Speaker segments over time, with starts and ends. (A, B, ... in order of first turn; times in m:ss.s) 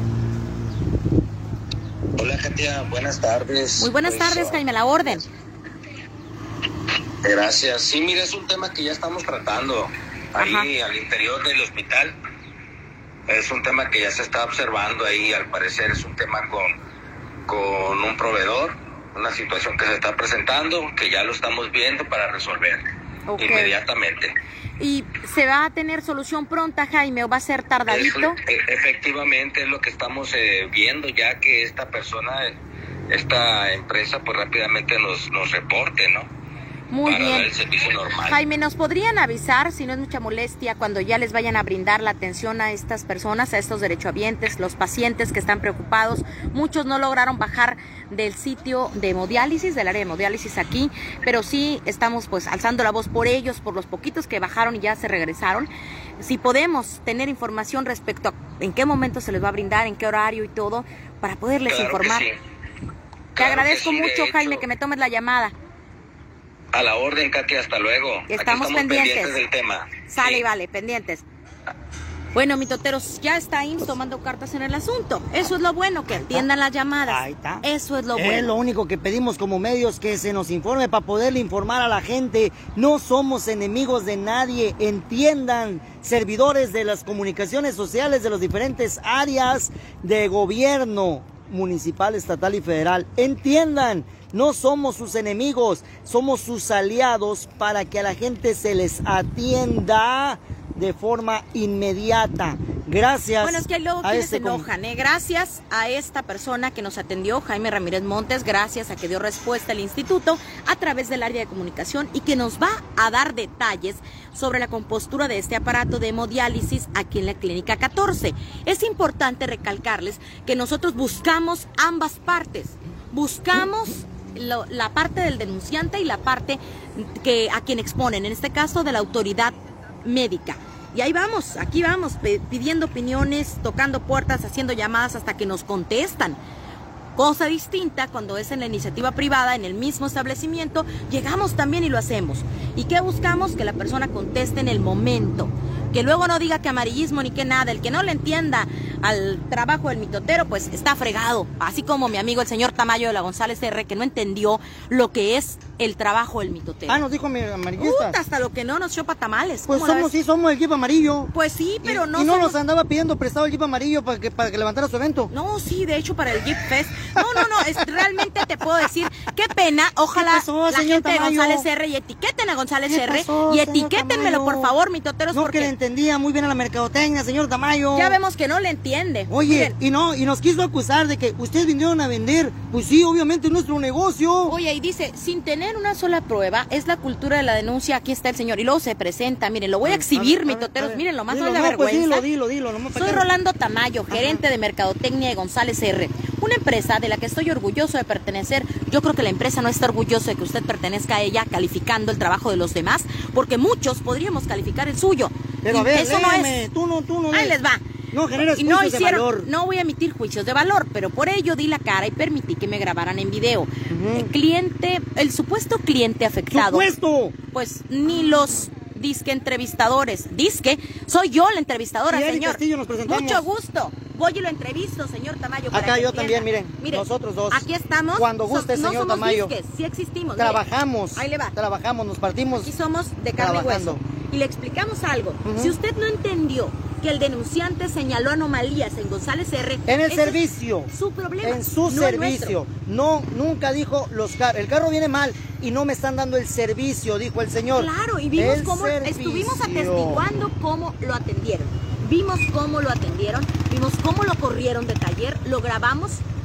0:02.2-0:05.2 A
0:03.8-0:05.2 B
0:07.2-0:12.2 A
0:10.4-0:10.7 B
0:13.3-0:16.7 A
0:17.5-0:22.8 A
0:23.3-0:23.8 B
0:23.4-0:24.3 A
0:24.8-0:28.4 B
0:27.9-0:32.6 A
0:33.1-0:36.3 A
0:36.9-0:37.5 B
0:37.0-0:38.4 A
0:38.2-1:02.3 B
1:01.7-1:02.4 A
1:03.4-1:04.7 A
1:03.4-1:05.6 B
1:06.7-1:10.4 A
1:08.3-1:09.4 B
1:10.1-1:11.3 B
1:12.4-1:18.5 B
1:16.1-1:16.5 C
1:17.0-1:44.7 C
1:43.4-2:16.4 B
2:17.2-2:37.0 B
2:36.9-2:38.2 C
2:37.8-2:40.1 B
2:39.7-2:41.3 C
2:41.3-2:42.6 B
2:41.8-2:45.3 C
2:45.3-2:55.7 B
2:47.2-2:48.2 C
2:50.1-2:51.7 C
2:52.9-2:54.7 C
2:55.3-2:58.2 C
2:57.9-2:59.8 B
2:59.3-3:04.6 C
3:04.5-3:12.2 B
3:09.8-3:13.3 C
3:13.0-3:26.6 B
3:14.1-3:14.4 C
3:25.6-3:27.6 C
3:27.3-3:27.8 B
3:28.1-3:29.5 C
3:28.6-3:36.9 B
3:33.9-3:34.3 C
3:36.5-3:37.4 C
3:37.5-3:50.6 B
3:42.1-3:43.5 C
3:45.7-3:49.6 C
3:50.4-3:52.7 C
3:51.2-3:51.6 B
3:52.6-4:02.6 B
3:53.4-3:54.0 C
3:55.4-3:55.8 C
3:59.9-4:10.5 C
4:07.8-4:16.2 B